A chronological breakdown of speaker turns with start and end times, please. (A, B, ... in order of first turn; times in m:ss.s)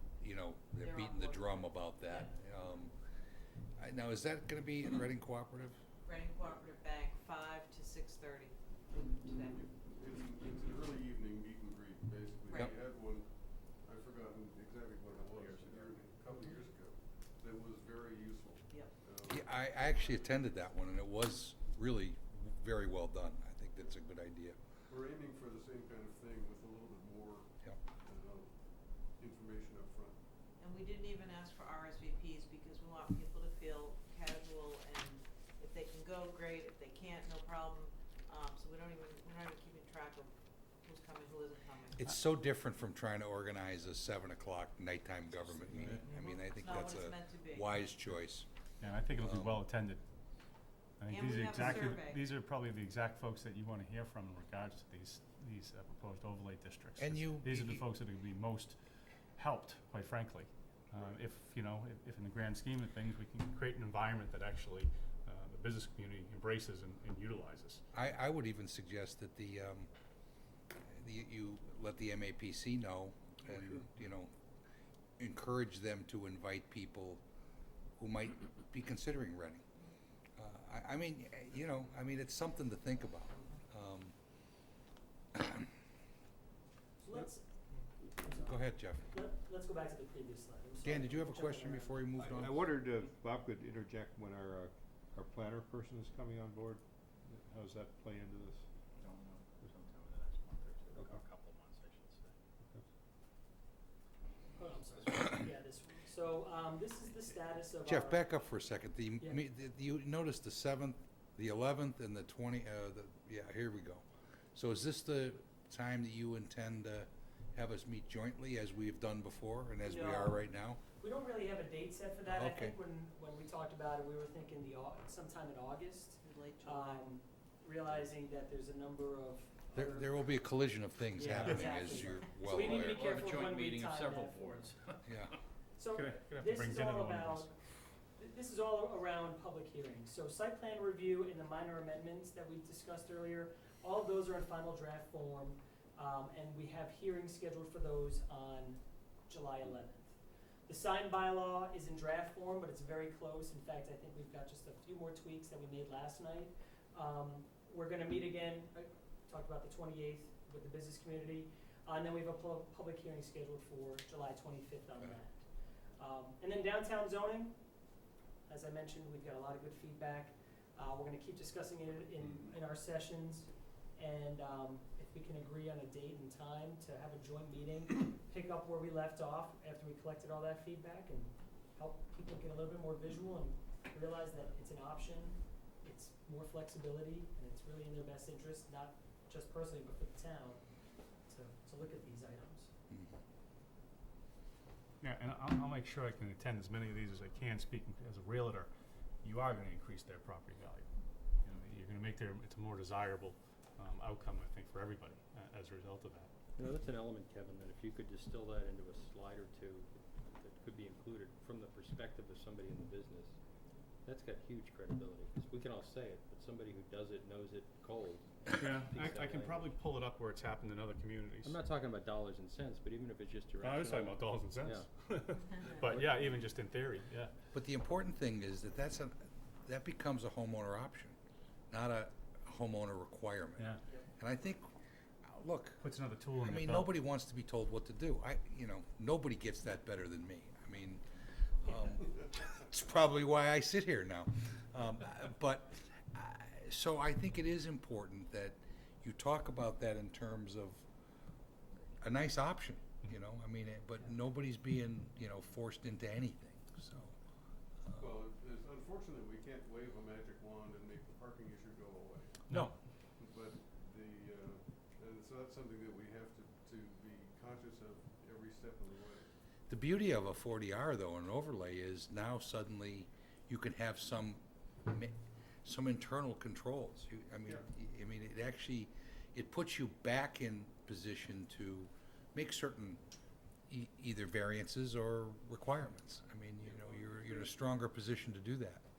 0:00.2-0:02.9 A
0:00.8-0:02.5 B
0:03.8-0:05.8 A
0:06.0-0:09.6 B
0:09.5-0:20.5 C
0:12.5-0:12.7 B
0:19.3-0:24.6 A
0:24.9-0:30.2 C
0:30.6-0:42.0 B
0:42.0-0:48.5 A
0:45.8-0:47.8 B
0:48.8-0:50.0 D
0:49.1-0:49.6 A
0:51.0-0:58.8 D
0:51.1-0:52.2 B
0:57.0-0:57.8 A
0:59.4-1:07.8 D
1:07.9-1:09.9 A
1:10.8-1:14.3 A
1:15.2-1:17.2 A
1:18.0-1:19.6 A
1:20.4-1:24.1 A
1:25.4-1:25.7 A
1:27.0-1:27.4 E
1:28.2-1:32.0 E
1:28.2-1:29.1 A
1:30.8-1:32.7 A
1:32.2-1:38.6 F
1:39.1-1:40.7 G
1:39.7-1:42.3 H
1:44.6-1:48.3 E
1:47.8-2:00.8 A
1:59.8-2:00.4 E
2:01.0-2:10.2 E
2:02.2-2:02.8 A
2:06.2-2:07.1 B
2:09.7-2:13.1 A
2:11.2-2:14.7 E
2:11.3-2:11.7 D
2:12.6-2:15.1 G
2:15.1-2:15.3 A
2:15.8-2:17.5 E
2:15.9-2:17.5 D
2:18.2-2:30.1 E
2:30.7-2:45.4 E
2:46.0-2:47.6 E
2:48.5-3:10.6 E
3:11.2-3:12.7 E
3:15.0-3:18.7 D
3:19.2-3:20.9 D
3:21.4-3:26.3 D
3:26.6-3:33.3 H
3:34.1-3:39.7 H
3:38.5-3:41.6 D
3:41.4-3:44.9 H
3:43.6-3:47.3 D
3:45.6-3:45.9 B
3:46.0-3:46.4 H
3:47.5-3:51.2 A
3:51.7-3:54.7 A
3:55.2-3:55.8 A
3:55.8-3:56.9 D
3:56.4-4:01.0 A
4:01.6-4:10.8 A
4:12.0-4:17.2 A
4:17.8-4:18.2 A
4:18.0-4:22.4 C
4:22.5-4:22.8 D
4:23.2-4:29.3 C
4:29.7-4:43.0 A
4:43.7-4:48.8 A
4:46.6-4:47.5 C